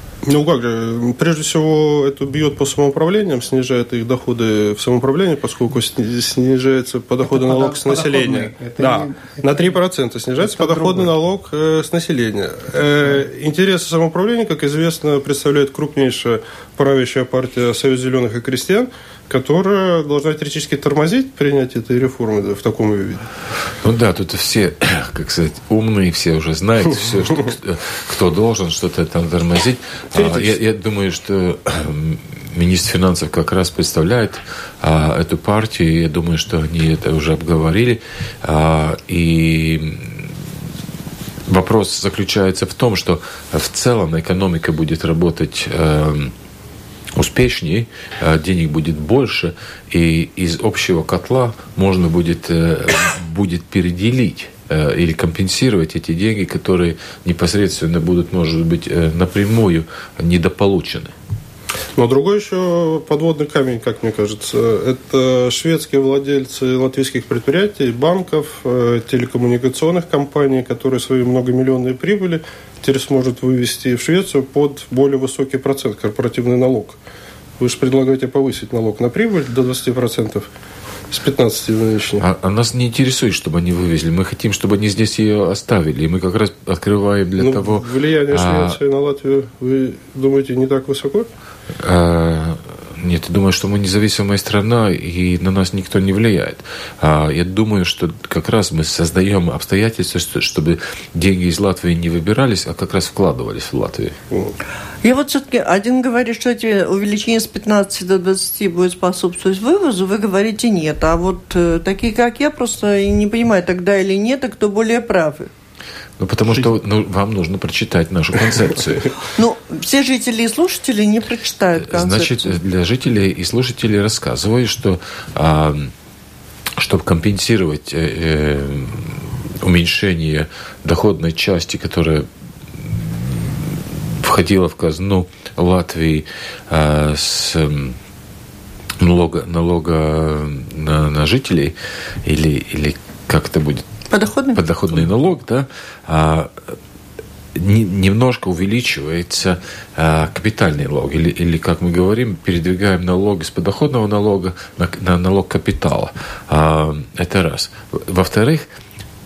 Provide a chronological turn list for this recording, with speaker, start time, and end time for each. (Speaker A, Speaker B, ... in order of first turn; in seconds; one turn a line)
Speaker A: 0.2-23.2
Speaker B: 23.8-40.3
Speaker A: 30.1-30.6
Speaker B: 41.5-46.3
Speaker B: 47.1-61.1
Speaker A: 62.0-77.0
Speaker A: 77.6-80.5
Speaker A: 81.1-82.2
Speaker B: 82.2-88.8
Speaker A: 87.4-91.3
Speaker B: 91.8-104.2
Speaker C: 105.0-115.5
Speaker B: 116.2-119.1
Speaker C: 119.2-122.6
Speaker B: 121.8-125.9
Speaker B: 126.8-138.0
Speaker B: 139.0-143.8
Speaker C: 144.1-144.6
Speaker B: 144.6-146.6
Speaker B: 147.6-158.7